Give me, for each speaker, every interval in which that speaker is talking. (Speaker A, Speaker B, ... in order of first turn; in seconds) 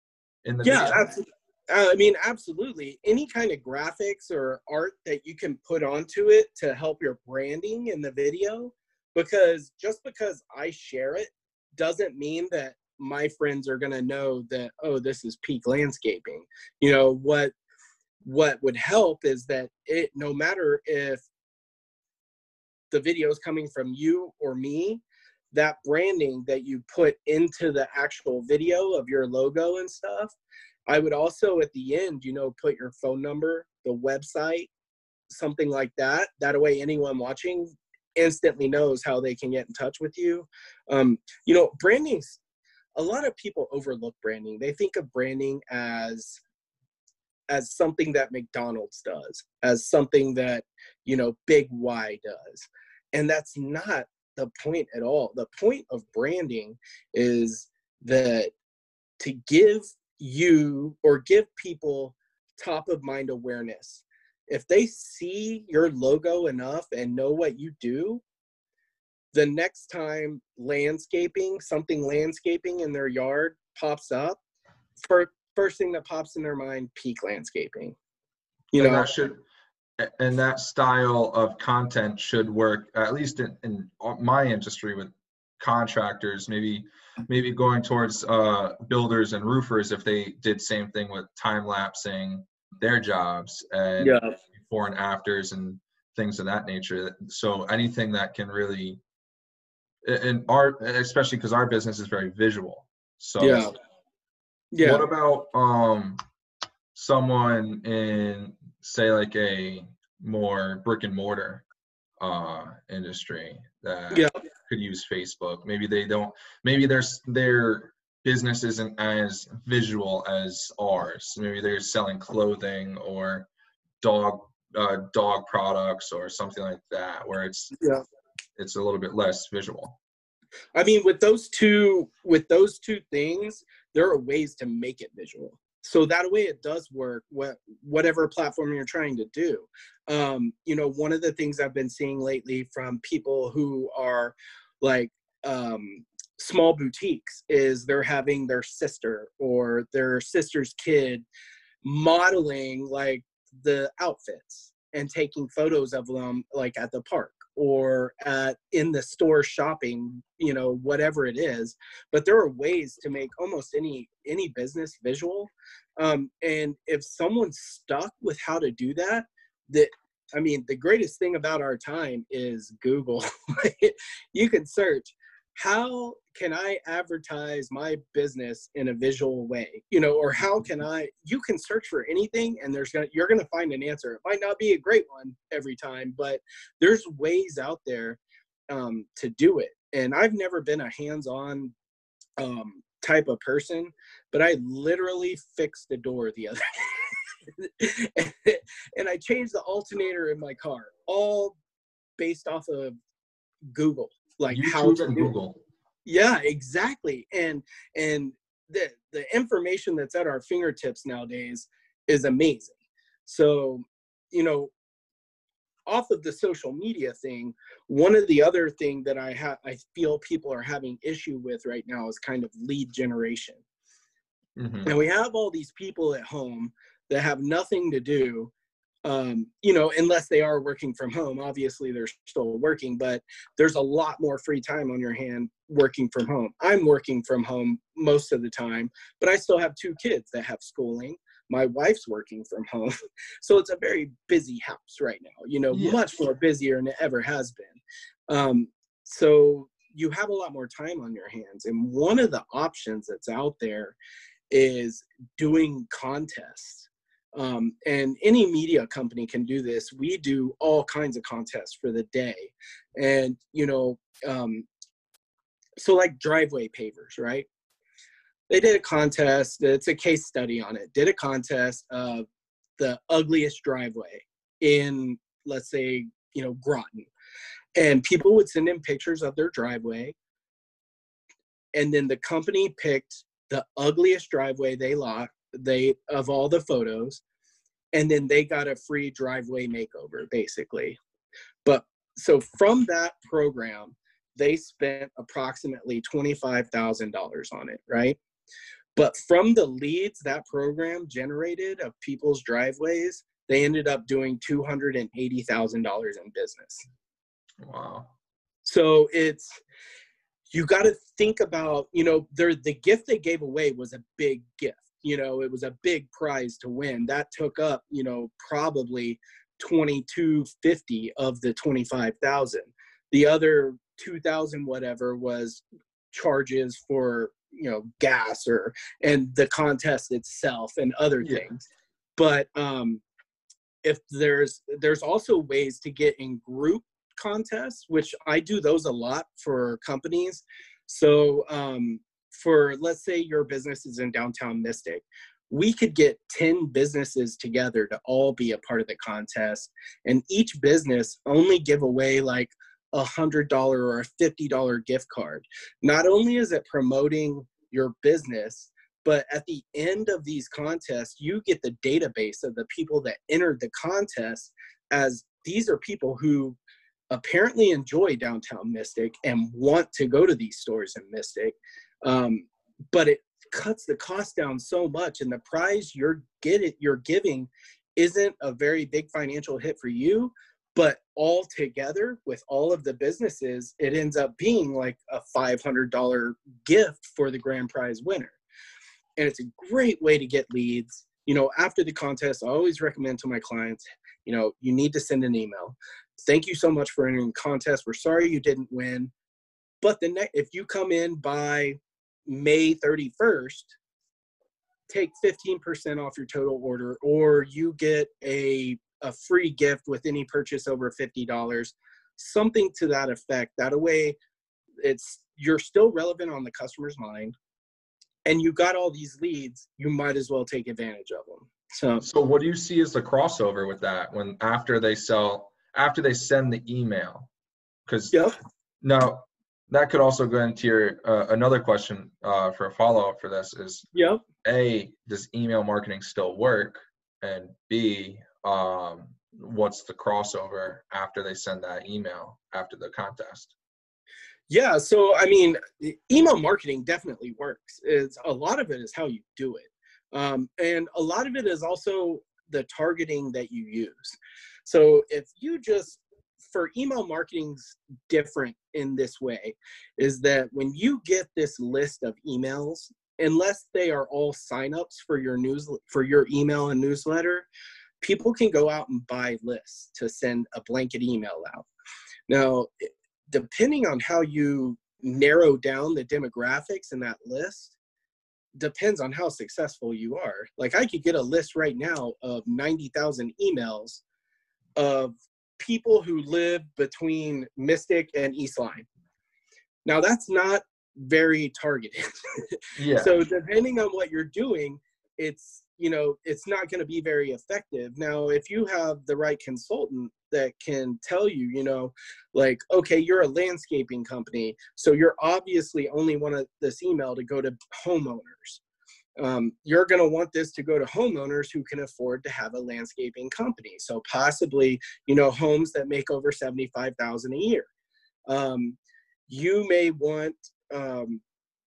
Speaker A: 0.5-1.1, 78.8-79.4, 80.0-99.0, 100.0-103.7, 104.8-106.2, 106.9-111.6, 112.2-123.5, 124.0-127.8, 128.6-130.0, 204.5-205.6, 224.6-225.0, 245.7-246.0, 307.6-308.1, 422.0-427.3, 427.9-428.2, 428.8-433.9, 434.4-443.5, 492.8-493.2
Speaker B: 0.6-17.5, 18.2-21.2, 22.9-30.3, 30.9-34.7, 35.3-42.4, 43.0-46.4, 47.5-58.5, 59.2-68.2, 69.3-74.4, 75.0-78.0, 78.7-79.1, 94.0-94.3, 103.4-103.7, 104.7-105.0, 130.8-151.2, 151.8-188.2, 188.7-191.7, 192.4-201.6, 202.2-203.0, 203.7-205.3, 206.1-212.7, 213.3-214.7, 215.9-223.6, 224.8-228.5, 229.1-254.0, 254.5-264.7, 265.8-267.5, 268.5-272.3, 272.8-277.1, 277.8-280.1, 281.8-287.2, 287.9-291.0, 291.6-298.2, 299.0-306.8, 308.6-309.6, 310.5-331.6, 332.2-333.0, 333.8-366.6, 367.1-388.4, 389.2-399.1, 399.8-403.8, 404.9-414.2, 414.8-417.3, 418.2-422.0, 433.9-434.2, 444.5-467.5, 468.0-471.7, 472.3-477.7, 478.6-484.0, 484.8-488.9, 489.9-508.6, 509.2-517.7, 518.3-518.8, 519.3-521.2